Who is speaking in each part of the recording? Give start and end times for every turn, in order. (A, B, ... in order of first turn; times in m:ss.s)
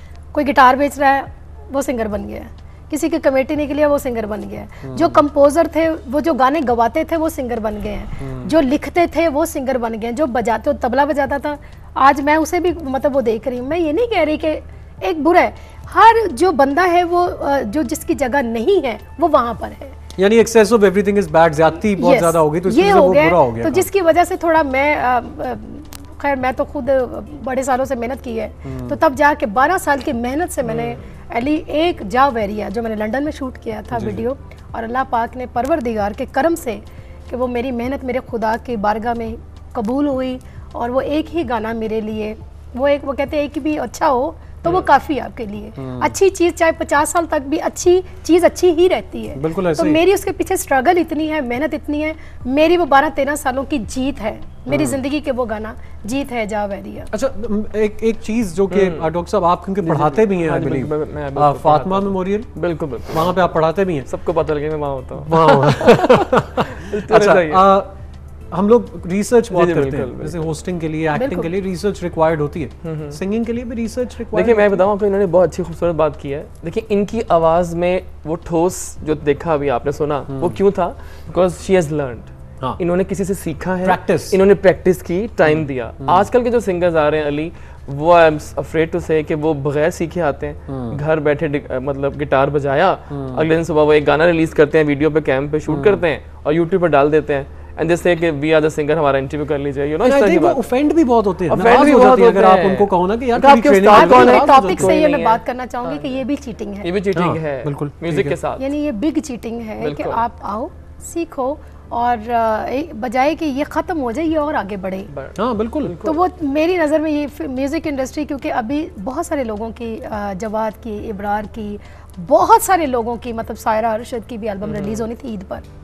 0:00.3-0:20.0 A
0:04.8-0:05.2 B
0:08.2-0:08.6 B
0:20.2-0:23.9 B
0:22.0-0:57.1 A
0:28.6-0:29.0 B
0:30.6-0:31.1 C
0:33.9-0:34.3 B
0:45.8-0:46.2 B
0:49.3-0:50.0 B
0:54.7-0:55.0 B
0:57.1-1:02.5 B
0:58.7-0:59.1 C
0:59.8-1:07.7 C
1:03.1-1:04.1 B
1:05.2-1:08.0 B
1:08.5-1:14.9 B
1:09.5-1:10.5 C
1:11.1-1:11.5 A
1:12.8-1:13.2 C
1:14.3-1:40.6 C
1:20.3-1:20.6 B
1:23.8-1:24.4 B
1:25.4-1:26.3 B
1:30.7-1:31.0 B
1:33.1-1:33.5 B
1:35.7-1:36.0 B
1:40.0-1:44.9 B
1:41.5-1:46.2 C
1:43.8-1:46.9 A
1:46.8-1:48.6 C
1:47.1-1:48.4 B
1:48.6-1:55.1 A
1:49.8-1:50.2 C
1:55.1-1:56.2 C
1:55.4-1:56.0 B
1:56.0-2:05.6 A
2:04.6-2:05.1 C